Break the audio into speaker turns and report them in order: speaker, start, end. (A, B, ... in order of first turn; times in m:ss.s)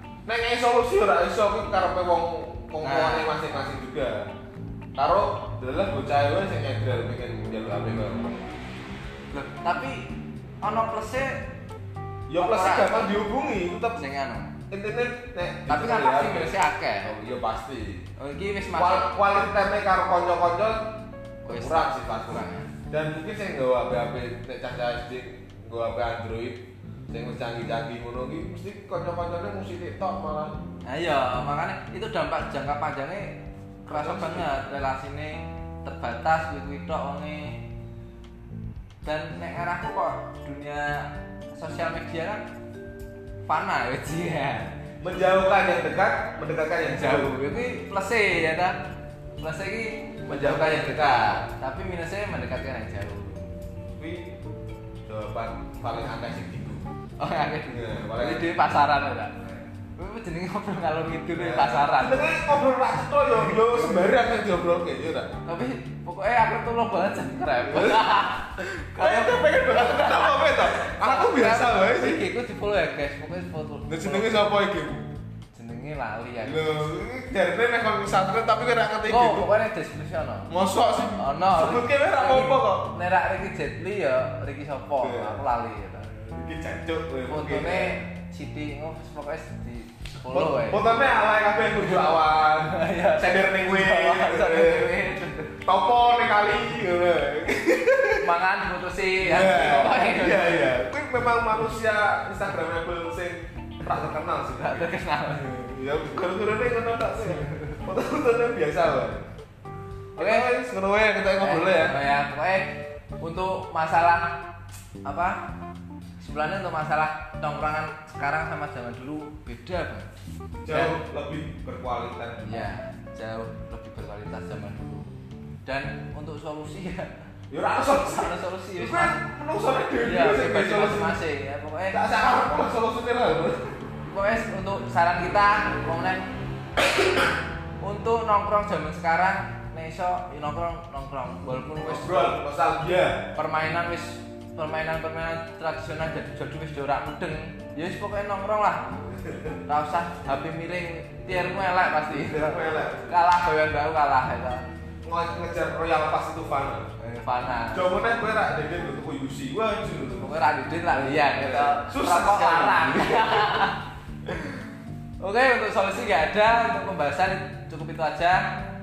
0:00.2-0:04.3 A
0:02.8-0:03.3 B
0:05.0-0:08.5 A
0:09.3-0:11.5 B
0:12.3-0:14.0 A
0:12.4-0:13.2 B
0:14.0-0:14.6 B
0:14.7-0:18.0 A
0:15.7-0:17.1 B
0:18.2-0:19.2 B
0:18.7-0:21.0 A
0:21.4-0:22.7 B
0:21.5-0:30.6 A
0:30.9-0:37.6 B
0:33.9-0:34.7 A
0:39.0-0:42.5 B
0:43.5-0:44.7 B
0:45.0-0:47.4 A
0:46.8-0:48.8 B
0:49.4-0:53.6 B
0:50.2-0:51.4 A
0:53.9-0:54.4 A
0:55.0-0:56.9 A
0:57.2-0:59.4 B
0:57.7-0:58.7 A
0:59.4-0:59.6 A
0:59.9-1:02.6 B
1:01.3-1:05.3 A
1:05.4-1:14.4 B
1:07.7-1:12.3 A
1:13.9-1:15.1 A
1:15.5-1:16.9 B
1:16.4-1:19.5 A
1:19.0-1:20.5 B
1:20.5-1:23.0 A
1:21.2-1:26.1 B
1:25.0-1:25.4 A
1:26.0-1:28.0 A
1:27.2-1:31.1 B
1:30.3-1:35.0 A
1:32.6-1:35.6 B
1:35.6-1:38.3 A
1:38.2-1:40.7 B
1:39.2-1:49.3 A
1:44.5-1:45.4 B
1:50.2-1:52.0 A
1:50.2-1:50.5 B
1:51.4-1:54.4 B
1:55.0-1:55.4 B
1:56.2-2:00.1 B
2:00.6-2:02.7 A
2:00.7-2:01.0 B
2:02.4-2:05.1 B
2:05.6-2:07.1 B
2:07.5-2:11.2 A
2:07.9-2:09.2 B
2:10.0-2:12.0 B
2:11.9-2:13.7 A
2:14.0-2:16.3 B
2:17.8-2:22.4 B
2:21.8-2:23.3 A
2:23.3-2:28.9 B
2:29.2-2:29.5 A
2:29.6-2:34.7 B
2:32.1-2:33.2 A
2:35.0-2:36.9 A
2:37.0-2:37.9 B
2:37.7-2:40.3 A
2:40.2-2:43.8 B
2:40.9-2:43.7 A
2:45.2-2:48.5 B